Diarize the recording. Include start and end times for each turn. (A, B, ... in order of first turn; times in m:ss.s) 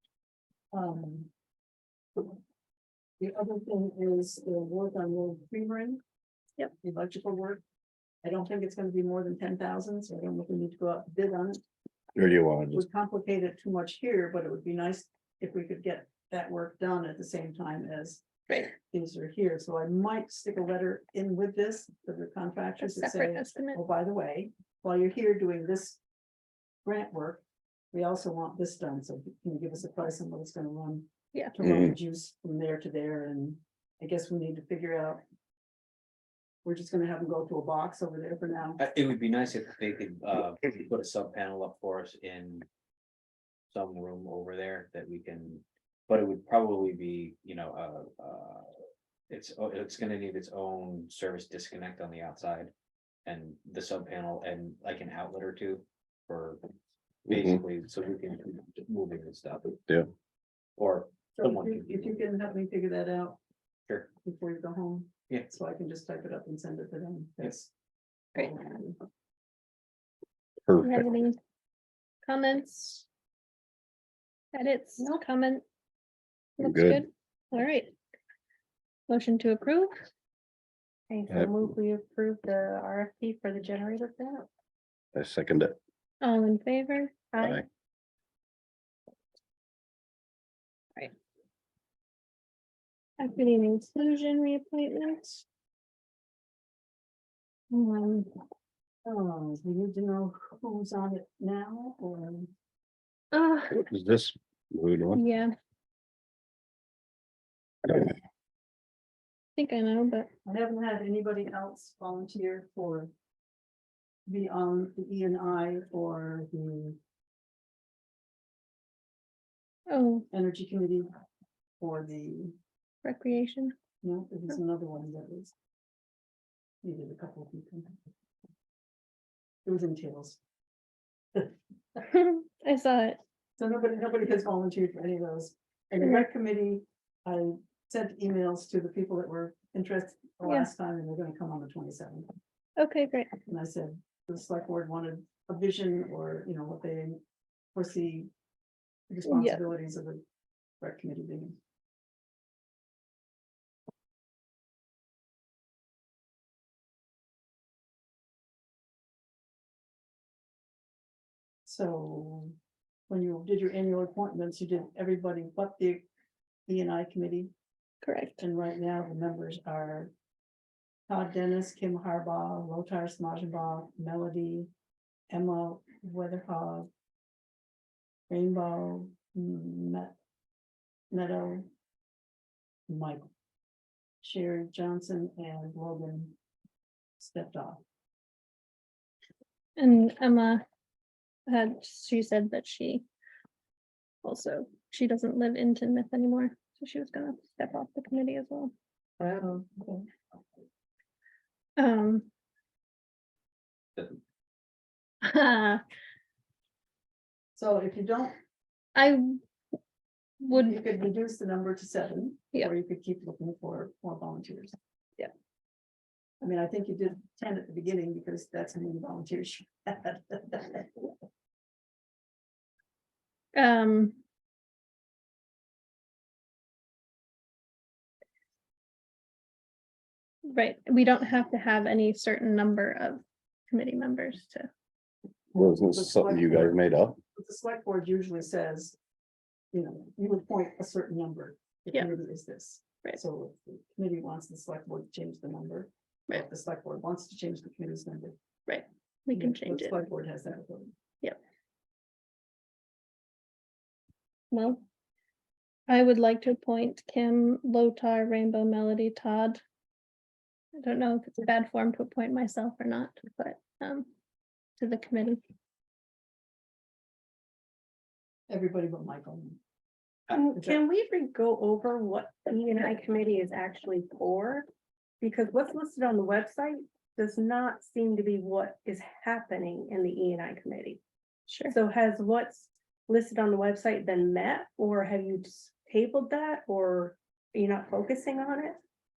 0:00.7-0:01.3 A
0:03.2-0:06.0 A
0:06.8-0:07.6 A
0:08.2-0:11.6 A
0:12.2-0:12.8 B
0:12.7-0:26.0 A
0:22.8-0:23.8 C
0:26.8-0:35.2 A
0:31.6-0:31.9 B
0:36.6-0:38.8 A
0:38.8-0:42.6 D
0:43.7-0:48.7 D
0:49.3-0:52.7 D
0:53.2-0:56.6 D
0:57.3-0:59.8 D
0:57.3-0:57.6 B
1:00.8-1:02.2 D
1:01.4-1:03.4 A
1:04.2-1:07.7 A
1:08.3-1:09.0 A
1:10.7-1:11.1 B
1:10.8-1:11.4 C
1:12.2-1:13.1 C
1:14.5-1:15.6 C
1:16.6-1:18.0 C
1:16.6-1:17.0 B
1:19.1-1:20.0 C
1:21.1-1:24.5 E
1:21.3-1:21.6 B
1:25.1-1:25.8 B
1:26.2-1:27.2 C
1:27.3-1:27.7 E
1:33.2-1:35.4 C
1:37.7-1:38.4 C
1:39.0-1:42.5 A
1:43.3-1:43.8 C
1:43.7-1:45.2 B
1:45.2-1:45.6 C
1:49.6-1:50.3 C
1:50.4-1:53.1 A
1:54.3-1:57.0 A
1:59.9-2:00.3 C
2:00.3-2:01.1 A
2:01.8-2:02.5 A
2:03.0-2:03.8 C
2:04.0-2:05.5 A
2:06.8-2:07.9 A
2:09.7-2:10.4 A
2:12.1-2:13.2 C
2:13.6-2:22.3 A
2:20.4-2:20.7 C
2:22.8-2:23.3 C
2:23.5-2:27.2 A
2:27.8-2:28.3 A
2:29.1-2:30.2 A
2:29.3-2:29.6 C
2:30.8-2:31.6 A
2:41.6-2:42.6 A
2:43.1-2:46.0 A
2:46.7-2:47.5 A
2:48.0-2:48.4 C
2:48.4-2:50.1 A
2:51.1-2:54.7 A
2:55.3-2:56.9 A
2:58.3-3:00.2 A
3:01.1-3:01.7 A
3:02.9-3:03.2 A
3:04.2-3:06.4 A
3:07.2-3:07.8 A
3:09.8-3:10.6 C
3:11.5-3:13.1 C
3:14.2-3:18.7 C
3:21.8-3:22.3 C
3:25.2-3:25.8 C
3:27.6-3:28.4 A
3:28.9-3:29.4 C
3:30.4-3:30.8 C
3:30.5-3:34.8 A
3:36.4-3:41.1 A
3:43.5-3:44.2 C
3:50.5-3:54.7 C
3:55.5-3:57.2 B
3:55.6-3:56.7 A
3:57.3-3:59.0 A
3:59.7-4:08.4 A
4:08.7-4:10.0 C
4:09.3-4:10.9 A
4:14.5-4:14.8 C
4:15.9-4:19.6 C
4:20.8-4:24.1 C
4:24.8-4:25.4 C
4:28.5-4:29.6 A
4:30.3-4:34.7 E
4:30.6-4:30.8 A
4:35.2-4:41.0 E
4:41.5-4:41.8 C
4:41.7-4:48.8 E